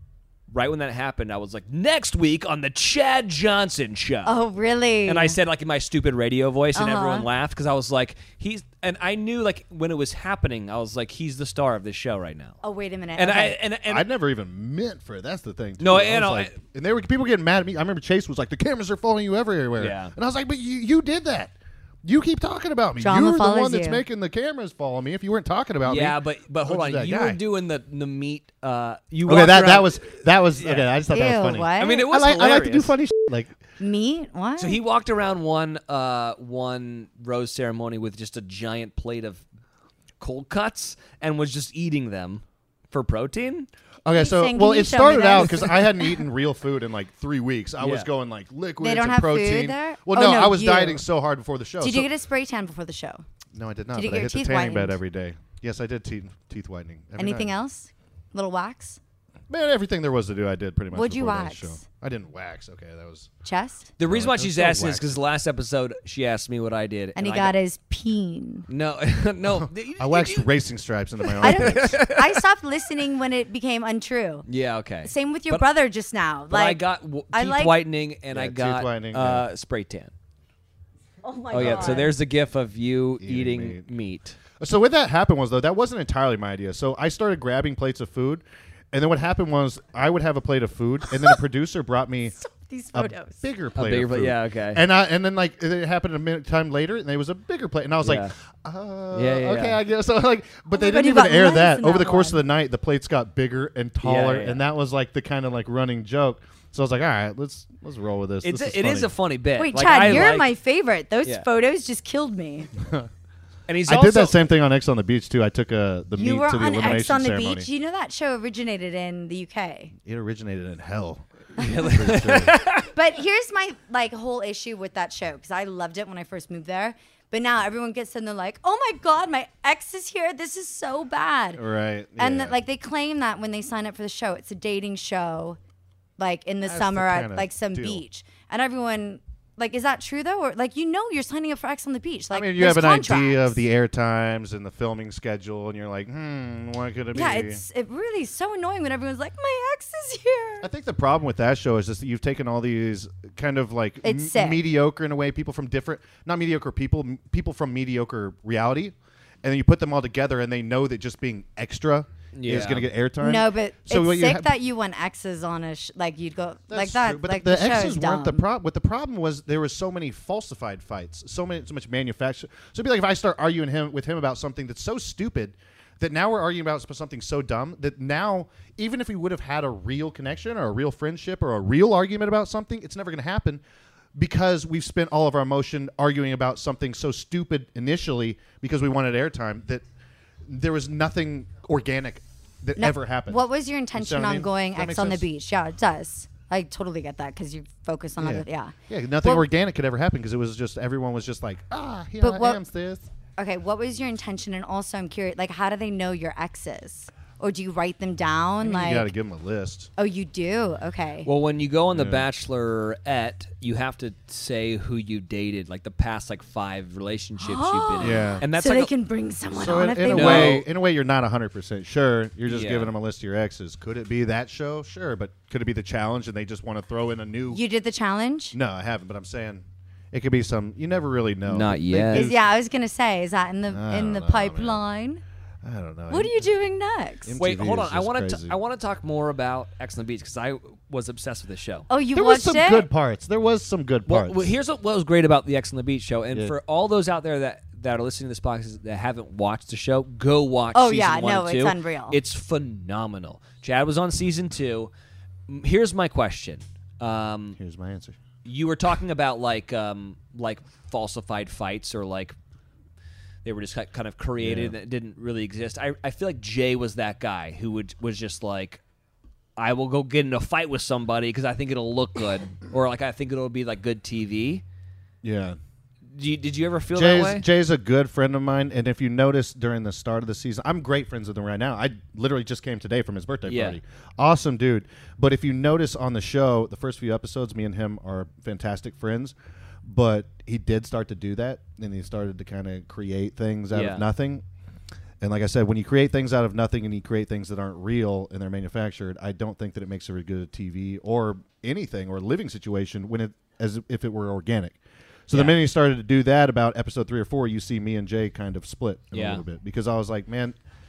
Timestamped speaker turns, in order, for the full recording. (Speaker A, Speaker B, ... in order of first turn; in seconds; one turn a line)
Speaker A: 0.5-4.4
Speaker B: 4.2-5.4
Speaker A: 5.0-12.6
Speaker B: 6.7-7.3
Speaker B: 12.6-13.6
Speaker A: 13.2-14.1
Speaker C: 13.9-21.5
Speaker A: 15.8-16.6
Speaker A: 19.8-20.1
Speaker C: 22.0-27.4
Speaker B: 23.0-24.0
Speaker A: 25.8-30.9
Speaker C: 29.2-33.5
Speaker B: 31.1-32.1
Speaker A: 31.7-33.0
Speaker B: 33.8-34.8
Speaker A: 34.6-39.4
Speaker A: 40.2-43.7
Speaker C: 44.0-52.1
Speaker B: 44.1-46.1
Speaker A: 45.4-45.6
Speaker A: 47.8-48.1
Speaker B: 48.8-51.0
Speaker B: 51.8-53.2
Speaker C: 53.5-57.5
Speaker B: 53.9-55.0
Speaker B: 57.2-59.0
Speaker C: 59.5-63.3
Speaker B: 60.9-61.8
Speaker B: 63.4-63.9
Speaker A: 64.0-67.5
Speaker C: 64.0-65.2
Speaker B: 67.2-68.7
Speaker A: 68.7-70.5
Speaker C: 69.4-72.0
Speaker A: 71.2-72.4
Speaker B: 71.4-74.5
Speaker A: 74.5-75.7
Speaker B: 75.0-77.8
Speaker A: 76.5-80.1
Speaker C: 78.3-79.5
Speaker B: 81.2-82.1
Speaker A: 81.5-84.4
Speaker C: 81.5-82.0
Speaker C: 83.2-83.9
Speaker C: 84.6-92.4
Speaker B: 92.3-93.4
Speaker C: 92.9-109.1
Speaker A: 93.7-94.8
Speaker A: 98.0-98.3
Speaker A: 99.1-99.8
Speaker B: 100.7-102.4
Speaker A: 104.0-104.7
Speaker A: 108.4-110.5
Speaker B: 109.6-112.7
Speaker A: 113.7-114.4
Speaker C: 113.9-117.7
Speaker B: 116.2-119.9
Speaker C: 120.0-122.5
Speaker A: 121.6-122.9
Speaker B: 122.9-131.6
Speaker C: 131.6-132.6
Speaker B: 132.2-135.6
Speaker B: 136.2-143.6
Speaker C: 136.6-138.0
Speaker C: 142.3-147.6
Speaker B: 147.1-150.7
Speaker C: 150.6-164.5
Speaker B: 154.0-154.6
Speaker A: 162.3-162.9
Speaker B: 163.2-168.4
Speaker C: 166.7-183.6
Speaker C: 184.2-189.8
Speaker C: 190.4-193.4
Speaker B: 192.8-199.5
Speaker C: 193.9-195.2
Speaker C: 198.2-203.1
Speaker B: 202.2-202.6
Speaker B: 203.4-209.1
Speaker C: 208.6-209.9
Speaker B: 210.0-211.3
Speaker A: 211.2-218.9
Speaker C: 211.9-212.3
Speaker B: 217.4-220.6
Speaker C: 218.0-218.4
Speaker C: 219.5-227.6
Speaker A: 220.1-220.7
Speaker A: 222.5-222.9
Speaker B: 227.5-228.6
Speaker C: 228.5-232.4
Speaker A: 231.5-232.3
Speaker B: 232.1-235.2
Speaker C: 233.7-234.8
Speaker C: 235.6-236.5
Speaker B: 236.1-237.4
Speaker C: 237.2-238.6
Speaker A: 237.4-241.9
Speaker B: 241.9-242.9
Speaker C: 242.1-244.5
Speaker A: 244.1-254.9
Speaker B: 250.7-252.2
Speaker A: 255.5-257.6
Speaker C: 257.6-258.2
Speaker A: 258.4-262.3
Speaker A: 263.4-268.8
Speaker C: 264.4-264.8
Speaker A: 269.6-274.6
Speaker C: 275.2-275.6
Speaker A: 276.1-277.5
Speaker C: 276.9-289.3
Speaker A: 283.4-283.8
Speaker C: 289.8-294.4
Speaker A: 293.7-294.1
Speaker C: 295.2-310.6
Speaker A: 305.3-305.6
Speaker A: 309.1-309.4